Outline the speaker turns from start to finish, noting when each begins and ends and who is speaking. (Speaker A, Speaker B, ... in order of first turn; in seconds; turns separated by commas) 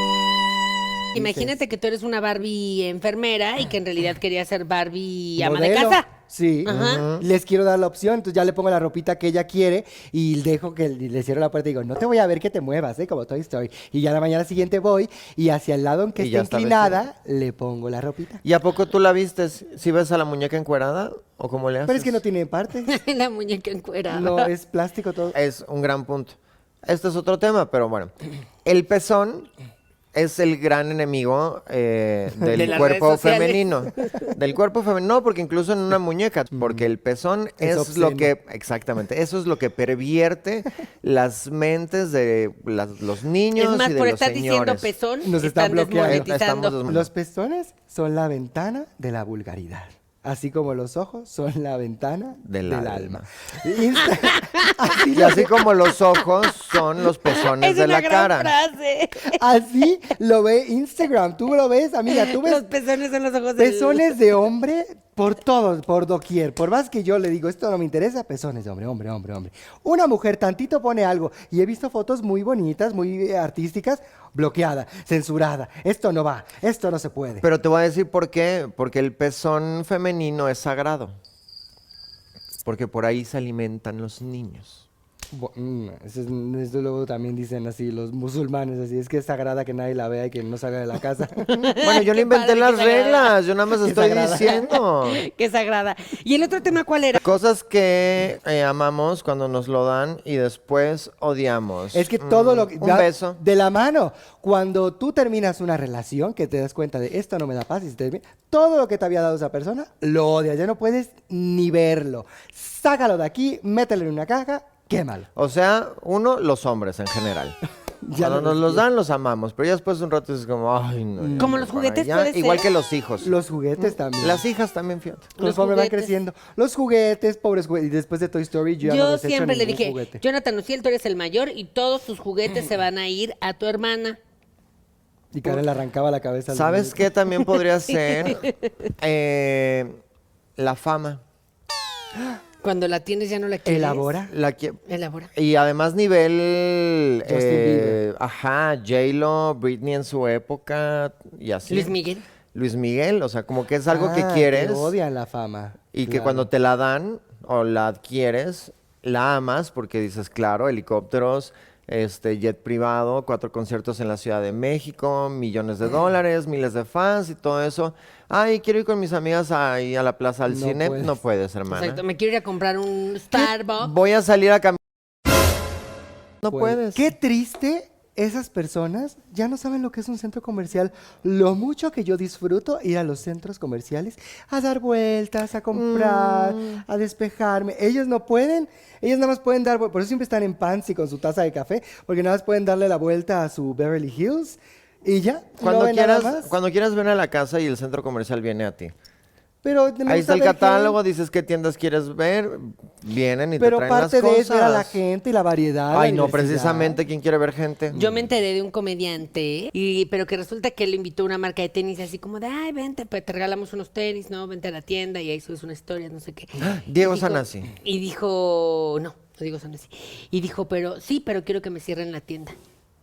Speaker A: 1.1-6.0, Speaker B: 1.1-1.5, Speaker B: 5.4-18.4, Speaker A: 6.6-7.0, Speaker C: 6.7-7.2, Speaker C: 16.2-17.0, Speaker C: 18.4-22.2, Speaker B: 21.9-22.9, Speaker A: 22.9-24.5, Speaker B: 24.1-25.4, Speaker C: 25.3-28.1, Speaker C: 28.6-29.5, Speaker C: 30.1-44.9, Speaker A: 32.5-34.3, Speaker B: 37.6-38.3, Speaker A: 43.5-46.8, Speaker B: 45.2-46.3, Speaker C: 46.0-47.1, Speaker B: 46.9-55.7, Speaker C: 52.4-53.2, Speaker A: 54.1-55.0, Speaker C: 55.1-58.5, Speaker A: 56.1-59.4, Speaker B: 59.2-62.6, Speaker A: 62.1-64.2, Speaker B: 63.6-77.4, Speaker C: 77.4-81.1, Speaker C: 82.6-84.8, Speaker B: 85.3-91.5, Speaker A: 91.5-93.3, Speaker C: 91.6-95.2, Speaker B: 93.8-94.6, Speaker A: 94.7-97.2, Speaker C: 97.2-103.4, Speaker B: 101.9-115.3, Speaker C: 115.3-117.6, Speaker B: 118.0-118.8, Speaker C: 118.2-123.3, Speaker B: 121.2-121.6, Speaker A: 121.4-122.7, Speaker B: 123.2-124.4, Speaker C: 124.1-125.3, Speaker A: 125.4-126.1, Speaker B: 125.4-130.2, Speaker A: 128.8-134.2, Speaker B: 135.3-137.0, Speaker C: 136.5-138.5, Speaker A: 137.9-138.5, Speaker C: 139.0-140.0, Speaker C: 140.6-141.2, Speaker A: 142.6-144.1, Speaker B: 143.7-144.3, Speaker C: 144.3-144.8, Speaker A: 144.9-145.3, Speaker C: 145.3-151.9, Speaker B: 147.2-148.0, Speaker A: 151.7-152.2, Speaker C: 152.5-154.9, Speaker B: 153.9-156.5, Speaker C: 155.9-172.0, Speaker B: 170.5-171.1, Speaker A: 171.7-173.9, Speaker C: 173.3-174.8, Speaker C: 176.4-177.1, Speaker B: 176.5-196.5, Speaker C: 185.7-186.8, Speaker C: 195.6-198.9, Speaker B: 199.6-201.0, Speaker C: 200.1-205.0, Speaker B: 203.6-207.0, Speaker C: 205.9-208.0, Speaker A: 207.9-222.6, Speaker C: 216.6-217.7